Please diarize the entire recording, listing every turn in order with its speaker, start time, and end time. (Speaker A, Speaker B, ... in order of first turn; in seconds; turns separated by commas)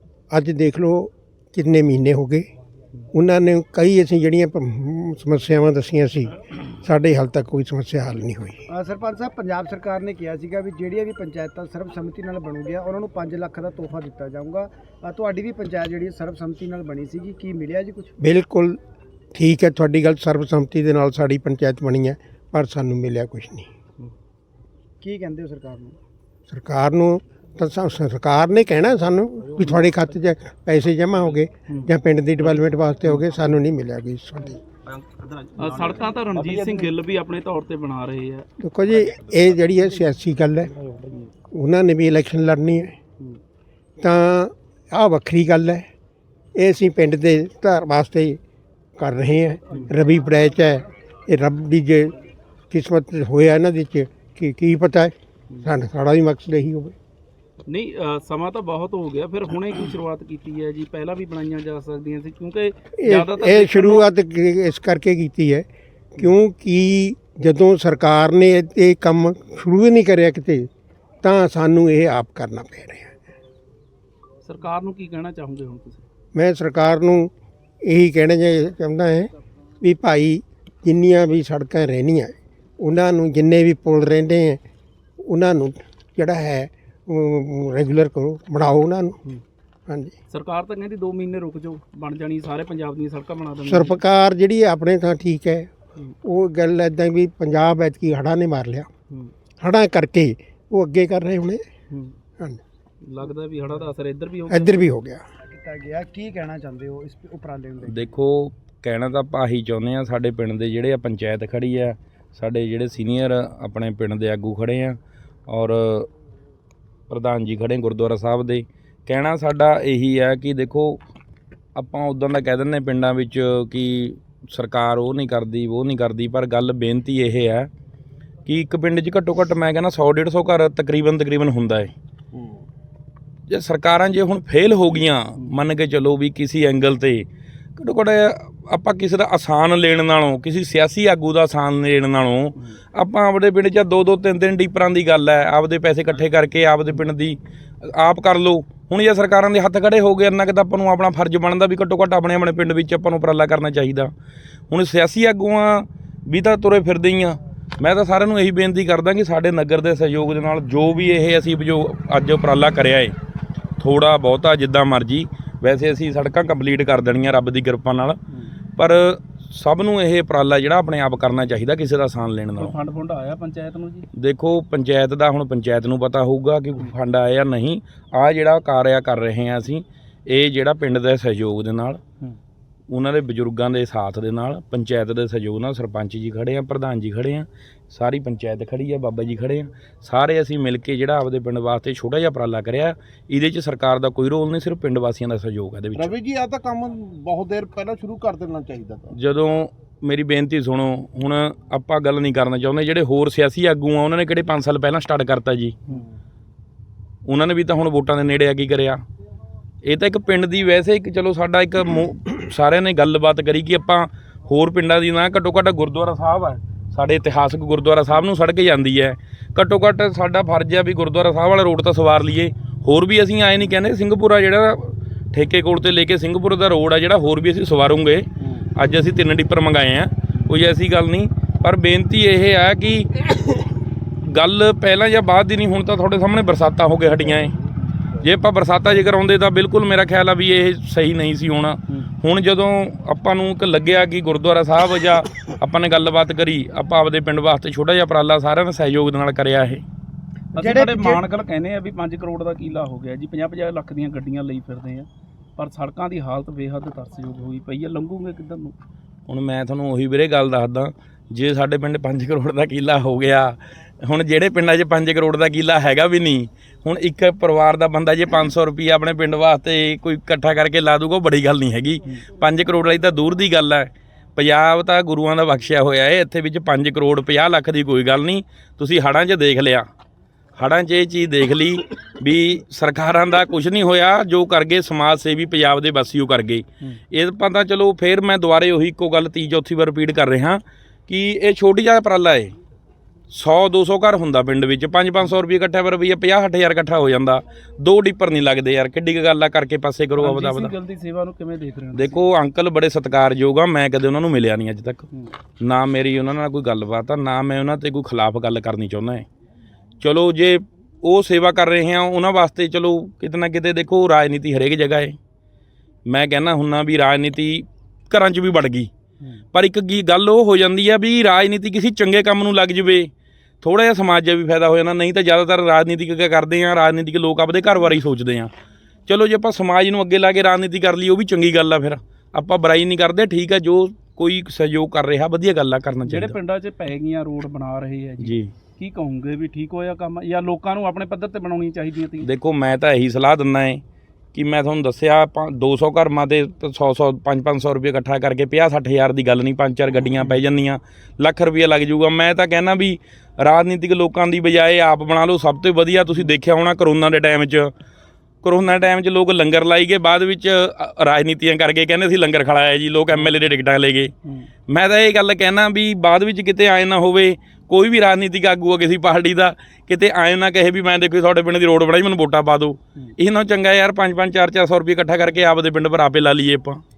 Speaker A: 0.3-2.5, Speaker A: 3.1-8.6, Speaker B: 8.7-18.1, Speaker A: 18.2-18.8, Speaker A: 19.3-23.7, Speaker B: 25.0-26.0, Speaker A: 26.5-34.6, Speaker C: 35.3-36.9, Speaker D: 35.6-38.5, Speaker A: 38.6-40.7, Speaker A: 41.5-43.0, Speaker A: 44.0-45.9, Speaker A: 46.6-48.4, Speaker A: 49.0-52.1, Speaker A: 52.7-57.0, Speaker D: 57.7-64.0, Speaker A: 63.0-70.7, Speaker A: 71.2-73.2, Speaker D: 74.5-76.0, Speaker A: 76.3-77.3, Speaker A: 77.9-79.3, Speaker A: 79.8-84.6, Speaker A: 85.3-89.2, Speaker A: 89.9-90.1, Speaker D: 90.3-94.0, Speaker A: 93.7-95.7, Speaker A: 96.2-98.9, Speaker A: 99.6-101.6, Speaker D: 103.0-104.8, Speaker A: 104.5-105.2, Speaker B: 105.5-108.1, Speaker E: 107.8-116.1, Speaker E: 117.1-121.0, Speaker E: 121.8-127.7, Speaker E: 128.5-131.9, Speaker C: 132.3-132.6, Speaker E: 133.5-154.1, Speaker E: 154.7-163.1, Speaker E: 163.8-168.2, Speaker E: 168.8-172.8, Speaker D: 172.6-174.1, Speaker E: 174.2-182.0, Speaker E: 182.9-196.1, Speaker C: 195.9-199.2, Speaker E: 199.1-205.8, Speaker E: 207.3-209.0, Speaker E: 209.8-233.1, Speaker E: 234.3-237.6, Speaker C: 237.1-237.5, Speaker E: 238.2-249.8, Speaker D: 250.5-258.8, Speaker B: 250.6-251.2, Speaker E: 259.3-279.9, Speaker E: 280.6-292.6, Speaker E: 293.3-300.8, Speaker D: 300.2-302.2, Speaker E: 301.9-305.1, Speaker E: 305.6-309.3, Speaker E: 310.0-315.2, Speaker E: 316.1-318.9, Speaker E: 319.5-323.1, Speaker E: 323.6-328.5, Speaker E: 329.1-336.4, Speaker D: 336.1-342.3, Speaker E: 338.2-338.5, Speaker E: 342.2-343.8, Speaker E: 344.3-357.7, Speaker E: 358.4-364.1, Speaker E: 364.7-376.8